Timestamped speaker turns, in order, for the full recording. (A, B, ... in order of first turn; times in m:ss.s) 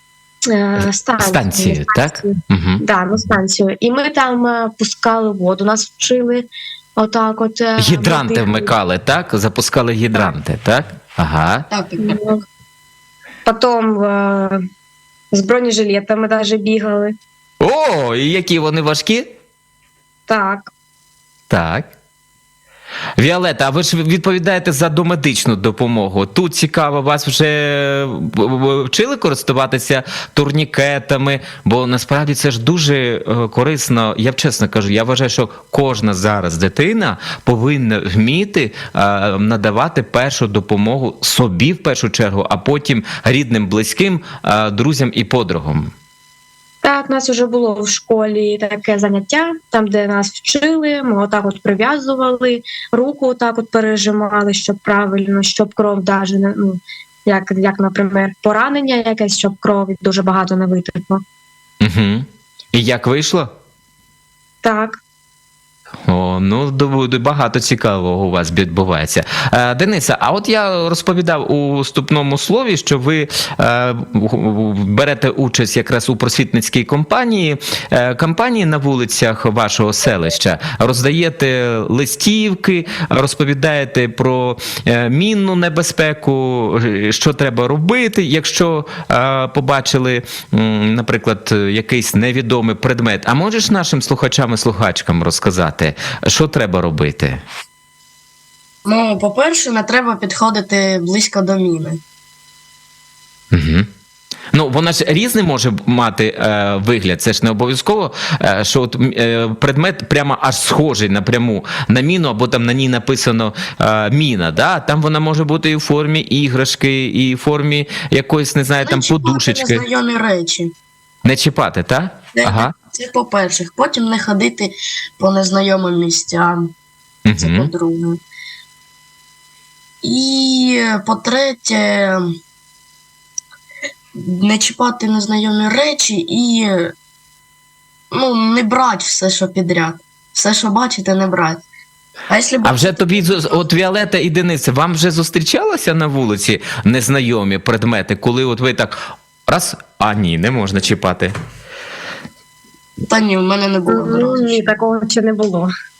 0:00.5-0:08.7 A
0:00.8-0:02.8 B
0:07.8-0:11.7 B
0:11.7-0:12.2 C
0:12.0-0:12.4 A
0:13.4-0:14.6 A
0:15.3-0:17.2 A
0:17.6-0:19.2 B
0:20.3-0:20.7 A
0:21.5-0:21.9 B
0:23.2-0:45.9 B
0:46.8-1:01.2 A
1:01.8-1:03.5 B
1:04.6-1:05.0 A
1:06.1-1:37.4 B
1:38.8-1:42.0 C
1:43.5-1:43.9 B
1:44.5-1:59.8 B
1:58.8-2:00.7 C
2:01.2-2:02.7 B
2:02.3-2:06.7 C
2:07.3-2:07.7 B
2:07.4-2:08.2 C
2:10.0-2:12.4 C
2:14.2-2:16.9 C
2:18.1-2:21.6 C
2:22.3-2:23.4 C
2:22.6-2:28.9 B
2:29.5-2:31.3 B
2:33.0-2:34.6 C
2:33.8-2:35.7 A